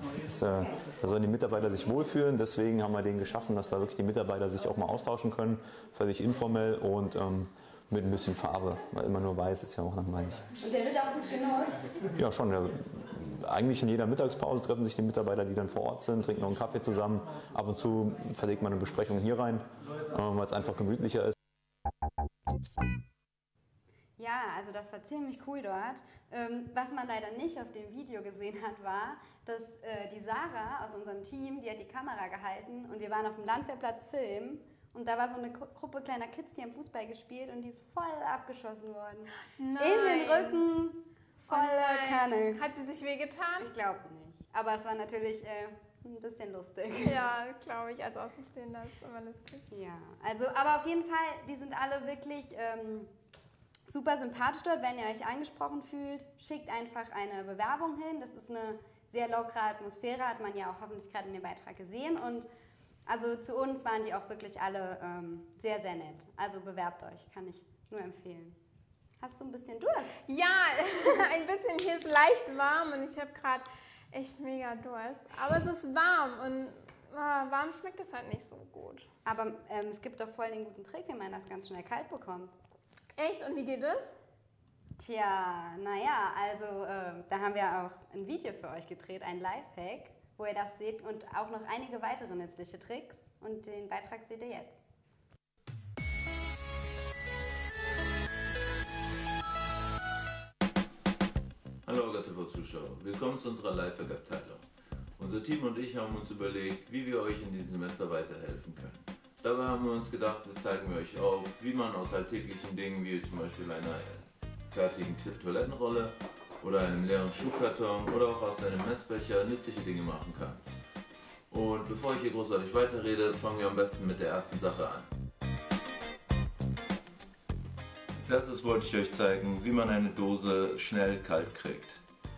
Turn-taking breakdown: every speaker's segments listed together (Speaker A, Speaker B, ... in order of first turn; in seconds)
Speaker A: 0.2-10.4, 12.1-21.4
Speaker B: 10.6-11.9, 24.2-42.6, 43.6-47.2, 49.7-53.1, 53.9-62.5, 63.1-68.6, 69.2-70.2, 79.2-82.5, 85.0-94.8
Speaker C: 39.6-40.6, 41.5-43.7, 47.0-49.7, 70.3-79.1, 83.2-84.1
Speaker D: 101.8-104.6, 105.2-120.7, 121.5-125.1, 128.1-132.0